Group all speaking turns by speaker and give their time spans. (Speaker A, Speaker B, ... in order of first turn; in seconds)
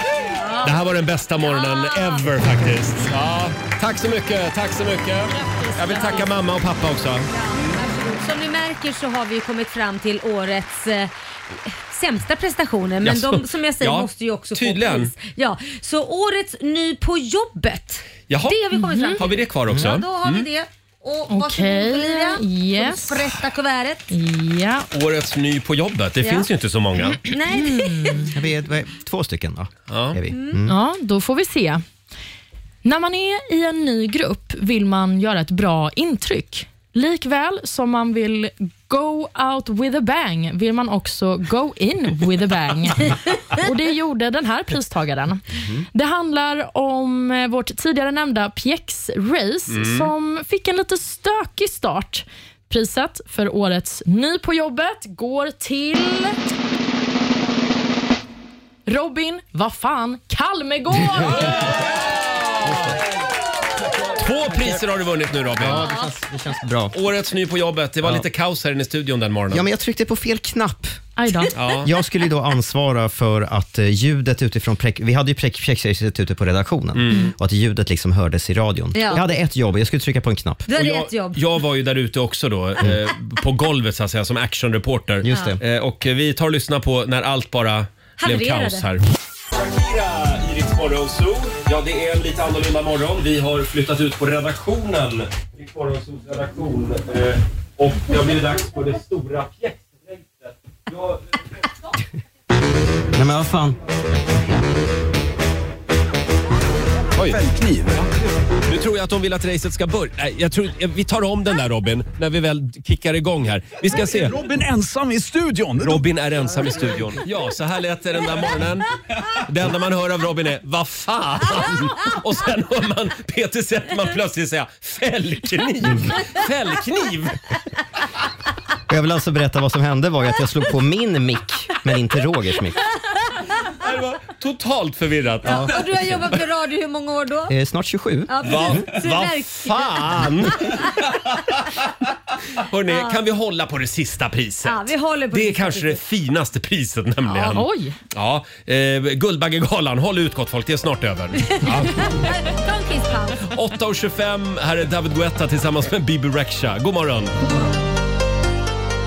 Speaker A: 0.2-0.7, 1.4-2.3, 7.3-24.1, 26.2-26.5, 27.0-28.3, 30.3-30.6, 78.9-79.3, 80.7-81.4, 85.3-85.6, 88.2-88.9, 135.5-137.5, 138.3-140.0, 142.9-143.2, 144.7-146.0, 147.2-147.6, 151.4-153.5
Speaker B: 0.6-7.3, 13.0-15.1, 18.3-20.5, 24.9-27.2, 29.9-30.2, 49.7-50.1, 61.8-63.0, 64.1-65.9, 66.9-69.7, 71.6-71.9, 76.9-77.3, 80.7-101.2, 107.2-107.4, 108.7-114.4, 115.8-127.4, 133.8-136.1, 138.4-141.0, 142.6-152.3, 153.4-157.4
Speaker C: 5.3-6.3, 18.8-19.2, 21.3-23.3, 24.1-24.9, 27.5-28.3, 30.7-31.8, 32.8-56.4, 58.9-61.7, 71.2-71.5, 147.6-148.0
Speaker D: 28.3-30.8, 62.6-63.0, 64.5-64.8, 65.6-66.9, 69.5-71.0, 71.8-80.7, 85.2-85.6, 103.1-103.8, 125.8-126.2, 128.9-132.8, 137.5-138.8
Speaker E: 107.3-108.0, 114.0-116.1